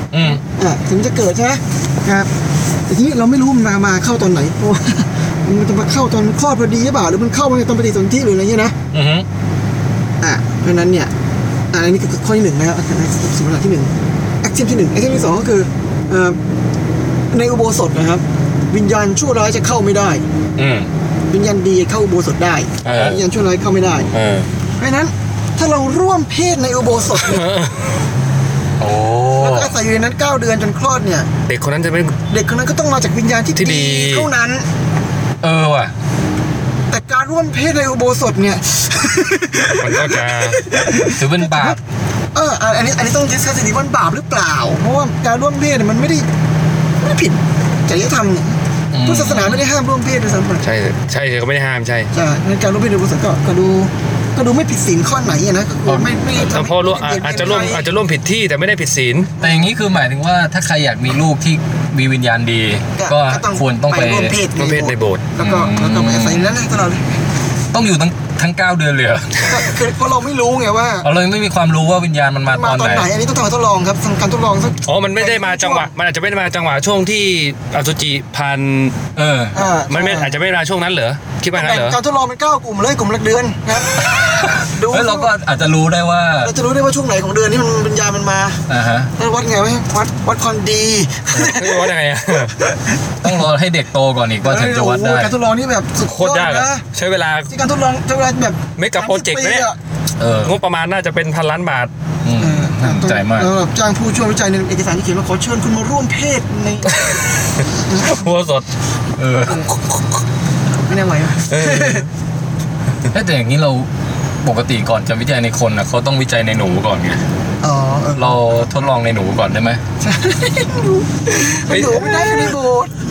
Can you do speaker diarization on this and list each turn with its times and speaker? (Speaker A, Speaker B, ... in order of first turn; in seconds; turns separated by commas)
Speaker A: 0.1-0.4, Speaker B: 0.4-2.3, Speaker B: 2.9-8.8, Speaker A: 8.9-9.3, Speaker B: 10.2-11.1, Speaker B: 11.7-13.9, Speaker B: 14.4-16.4, Speaker B: 17.3-20.2, Speaker A: 20.6-20.9, Speaker B: 21.3-24.1, Speaker A: 22.8-23.2, Speaker A: 24.1-24.5, Speaker B: 24.8-27.4, Speaker C: 27.2-27.9, Speaker A: 28.8-29.8, Speaker B: 29.4-31.3, Speaker C: 31.5-32.2, Speaker B: 32.3-34.7, Speaker C: 33.6-34.3, Speaker A: 35.4-35.9, Speaker B: 36.9-41.8, Speaker C: 39.8-40.6, Speaker A: 41.2-41.8, Speaker B: 42.3-46.3, Speaker B: 47.0-50.6, Speaker A: 48.9-49.6, Speaker C: 50.6-52.1, Speaker B: 52.1-57.9, Speaker A: 55.9-56.1, Speaker C: 56.4-59.3, Speaker A: 59.4-64.4, Speaker B: 59.4-59.7, Speaker B: 63.0-67.0, Speaker C: 64.6-65.3, Speaker A: 65.4-66.5, Speaker A: 67.7-69.7, Speaker B: 69.4-71.1, Speaker A: 71.0-73.1, Speaker B: 72.5-75.9, Speaker C: 74.8-79.0, Speaker A: 79.2-79.6, Speaker B: 79.5-80.4, Speaker C: 79.9-82.0, Speaker B: 81.5-85.3, Speaker A: 83.9-86.5, Speaker B: 86.4-88.6, Speaker A: 88.7-89.1, Speaker B: 89.2-91.9, Speaker C: 91.4-92.5, Speaker B: 92.5-93.4, Speaker A: 93.2-95.3, Speaker B: 94.4-96.8, Speaker C: 96.1-97.5, Speaker B: 97.5-99.8, Speaker C: 98.8-99.7, Speaker A: 100.2-100.6, Speaker C: 100.4-101.9, Speaker A: 102.2-103.5, Speaker B: 102.4-107.1, Speaker C: 106.9-108.7, Speaker B: 107.9-108.2, Speaker A: 109.2-109.7, Speaker B: 109.5-109.7, Speaker B: 110.9-112.1, Speaker C: 111.5-112.1, Speaker A: 113.1-113.9, Speaker A: 114.4-117.2, Speaker B: 117.6-118.4, Speaker A: 118.1-119.8, Speaker B: 120.0-122.9, Speaker C: 121.6-122.6